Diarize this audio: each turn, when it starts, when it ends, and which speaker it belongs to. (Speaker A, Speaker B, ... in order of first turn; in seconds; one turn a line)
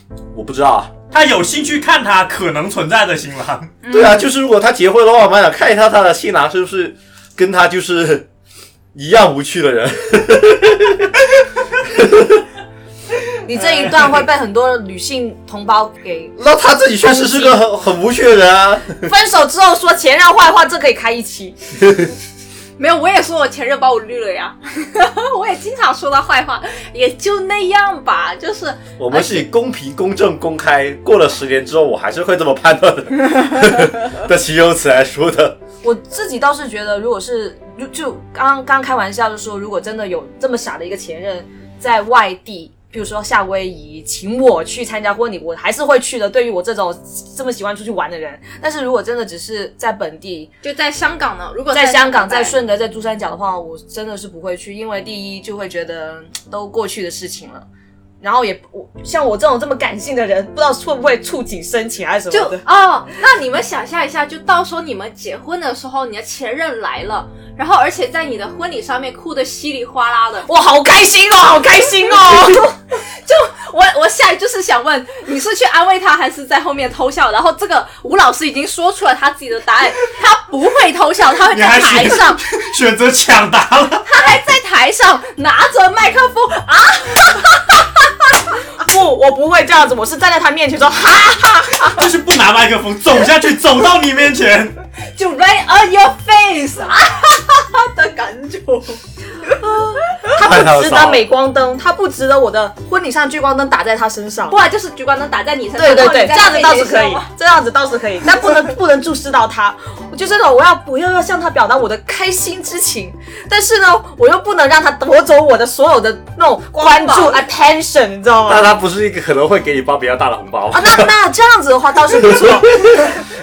Speaker A: 0.3-0.9
Speaker B: 1.1-3.8
Speaker C: 3.8-4.3
Speaker A: 3.9-8.3
Speaker A: 8.9-11.3
Speaker A: 11.8-12.4
Speaker D: 13.4-16.4
Speaker A: 16.4-19.1
Speaker D: 17.1-17.6
Speaker D: 19.0-21.6
Speaker A: 21.8-22.1
Speaker C: 22.8-29.5
Speaker A: 29.0-35.6
Speaker D: 35.8-50.5
Speaker C: 50.6-52.6
Speaker D: 51.7-57.7
Speaker D: 58.2-62.6
Speaker C: 62.3-70.5
Speaker D: 70.5-72.8
Speaker C: 73.0-82.4
Speaker B: 81.5-84.1
Speaker C: 84.1-87.8
Speaker D: 88.8-92.0
Speaker B: 91.9-94.8
Speaker C: 95.2-99.0
Speaker C: 99.8-100.3
Speaker D: 100.3-104.6
Speaker A: 100.4-101.3
Speaker C: 104.5-107.3
Speaker D: 105.8-118.7
Speaker C: 116.8-117.4
Speaker A: 118.5-121.1
Speaker D: 120.7-123.1
Speaker A: 122.2-123.1